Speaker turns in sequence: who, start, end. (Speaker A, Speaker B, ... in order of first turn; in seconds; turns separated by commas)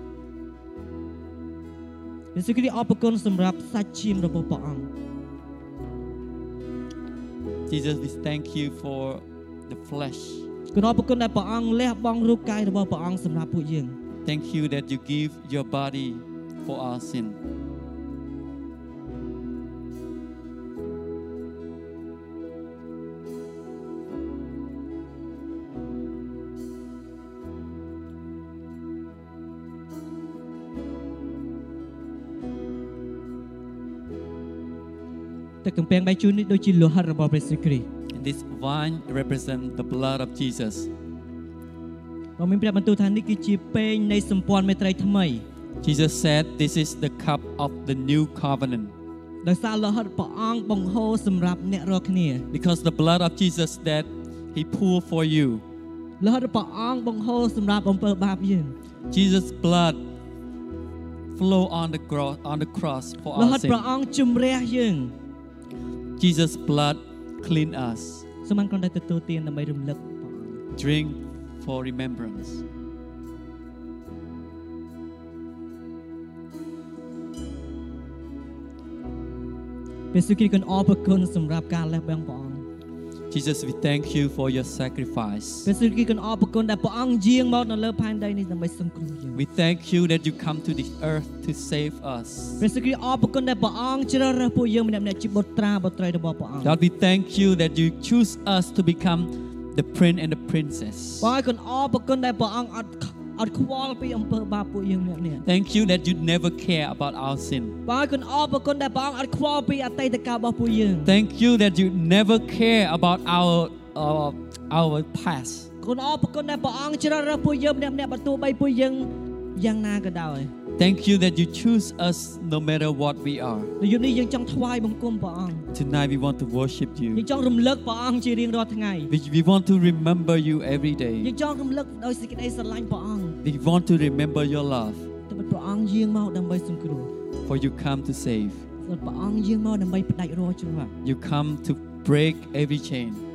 Speaker A: 2.3-4.9, Speaker B: 7.7-10.5, Speaker A: 10.7-14.0, Speaker B: 14.2-17.4, Speaker A: 35.6-37.9, Speaker B: 38.1-40.9, Speaker A: 42.4-45.4, Speaker B: 45.8-48.9, Speaker A: 49.4-52.4, Speaker B: 52.5-55.6, Speaker A: 56.2-58.8, Speaker B: 59.1-60.0, Speaker B: 61.3-63.8, Speaker A: 63.4-65.1, Speaker B: 66.2-68.3, Speaker A: 68.5-70.6, Speaker B: 70.7-72.6, Speaker A: 80.1-82.7, Speaker B: 83.3-85.7, Speaker A: 85.7-89.4, Speaker B: 89.4-92.6, Speaker A: 92.6-96.8, Speaker B: 96.6-101.3, Speaker A: 101.2-105.4, Speaker B: 105.4-107.8, Speaker A: 107.9-111.2, Speaker B: 111.0-115.7, Speaker A: 115.8-120.5, Speaker B: 120.8-123.7, Speaker A: 123.8-125.7, Speaker B: 125.7-127.3, Speaker A: 127.2-129.1, Speaker B: 129.1-131.3, Speaker A: 131.2-133.4, Speaker B: 133.4-135.1, Speaker A: 135.3-137.1, Speaker B: 137.5-138.7, Speaker A: 138.8-140.9, Speaker B: 141.0-143.2